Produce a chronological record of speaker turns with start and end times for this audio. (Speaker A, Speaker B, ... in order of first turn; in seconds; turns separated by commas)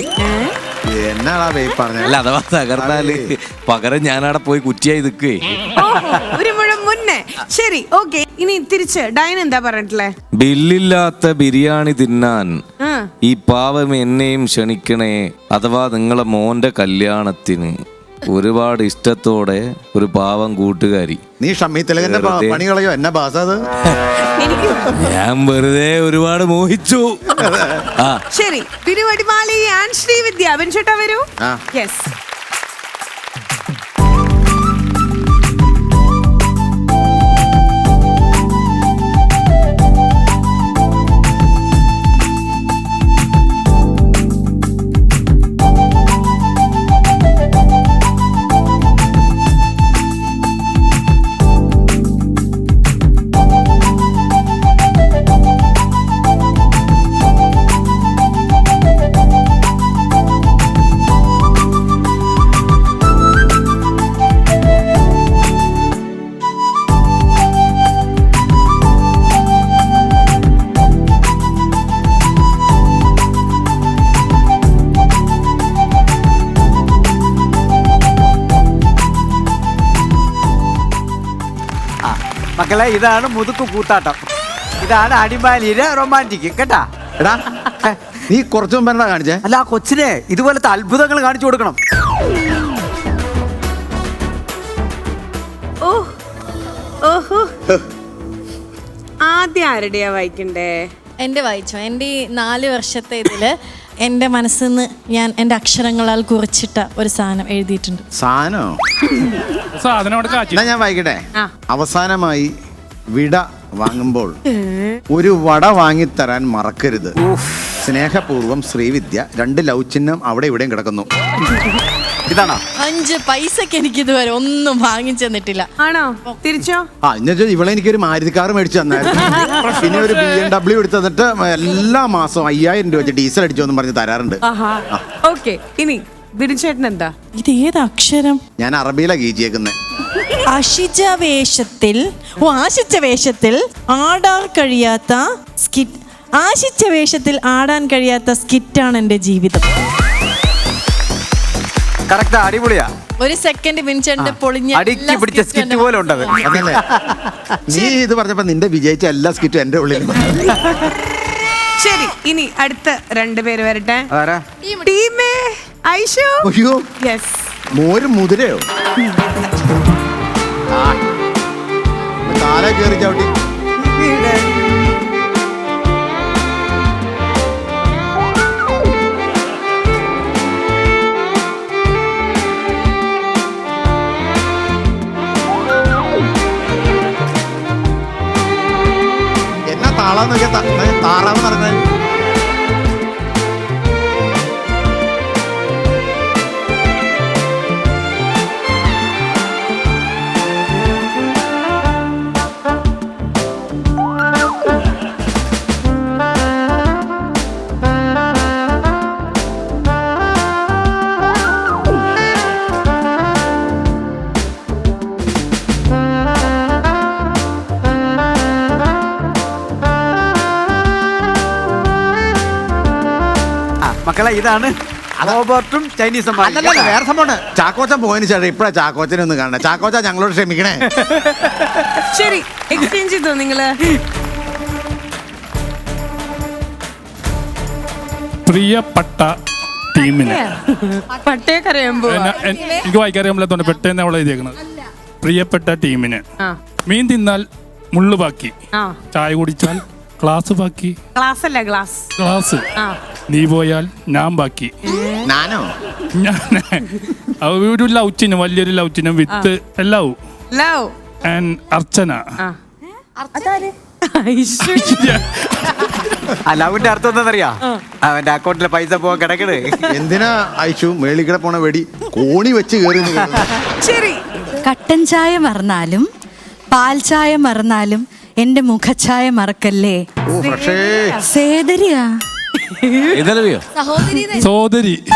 Speaker A: 0.2-0.5, Speaker B: 0.9-2.2, Speaker C: 2.0-5.7, Speaker B: 2.8-3.3, Speaker A: 5.8-10.1, Speaker C: 10.4-12.5, Speaker A: 12.8-13.1, Speaker C: 13.2-17.7, Speaker C: 18.3-21.2, Speaker B: 21.4-23.6, Speaker C: 22.0-22.6, Speaker A: 24.4-25.1, Speaker C: 24.9-27.4, Speaker B: 27.3-27.9, Speaker A: 28.3-32.1, Speaker D: 82.0-84.2, Speaker D: 84.8-86.8, Speaker B: 88.3-89.4, Speaker D: 89.4-91.8, Speaker A: 95.8-96.1, Speaker A: 97.0-97.5, Speaker A: 99.2-100.8, Speaker E: 101.2-108.0, Speaker B: 108.2-108.8, Speaker F: 109.8-110.6, Speaker B: 110.5-112.5, Speaker B: 113.1-114.4, Speaker B: 115.1-117.1, Speaker D: 117.2-117.7, Speaker B: 117.8-121.1, Speaker D: 122.3-122.6, Speaker E: 122.8-125.7, Speaker A: 125.8-126.8, Speaker B: 127.0-135.0, Speaker A: 134.4-137.1, Speaker E: 137.3-138.4, Speaker B: 138.6-139.7, Speaker E: 140.5-149.7, Speaker D: 152.1-152.9, Speaker E: 153.2-156.6, Speaker D: 154.2-157.6, Speaker B: 156.4-156.8, Speaker B: 157.7-160.5, Speaker A: 161.8-164.1, Speaker D: 164.1-164.4, Speaker A: 164.8-166.4, Speaker B: 166.4-166.8, Speaker A: 167.0-167.5, Speaker B: 167.7-168.6, Speaker B: 170.7-171.0, Speaker B: 172.2-173.3, Speaker D: 173.8-174.8, Speaker B: 189.7-191.8, Speaker D: 223.8-227.0, Speaker B: 226.4-230.9, Speaker D: 231.0-231.7, Speaker A: 232.1-233.7, Speaker F: 238.4-239.3, Speaker F: 239.9-240.4, Speaker A: 240.2-242.7, Speaker F: 242.1-244.6, Speaker F: 245.2-246.2, Speaker F: 246.8-248.5, Speaker F: 249.1-251.0, Speaker A: 251.1-252.1, Speaker F: 252.2-252.7, Speaker F: 253.3-254.7, Speaker A: 254.8-255.2, Speaker B: 255.2-255.7, Speaker F: 256.1-260.2, Speaker A: 260.5-260.9, Speaker F: 261.2-262.3, Speaker A: 263.3-265.0, Speaker F: 264.6-266.1, Speaker D: 266.4-269.9, Speaker B: 269.9-273.5, Speaker A: 273.8-274.2, Speaker G: 274.6-276.1, Speaker G: 276.7-280.0, Speaker B: 280.2-281.2, Speaker A: 280.4-280.7, Speaker G: 281.2-282.1, Speaker A: 282.6-283.1, Speaker C: 283.1-283.6, Speaker A: 283.9-284.2, Speaker F: 284.3-285.0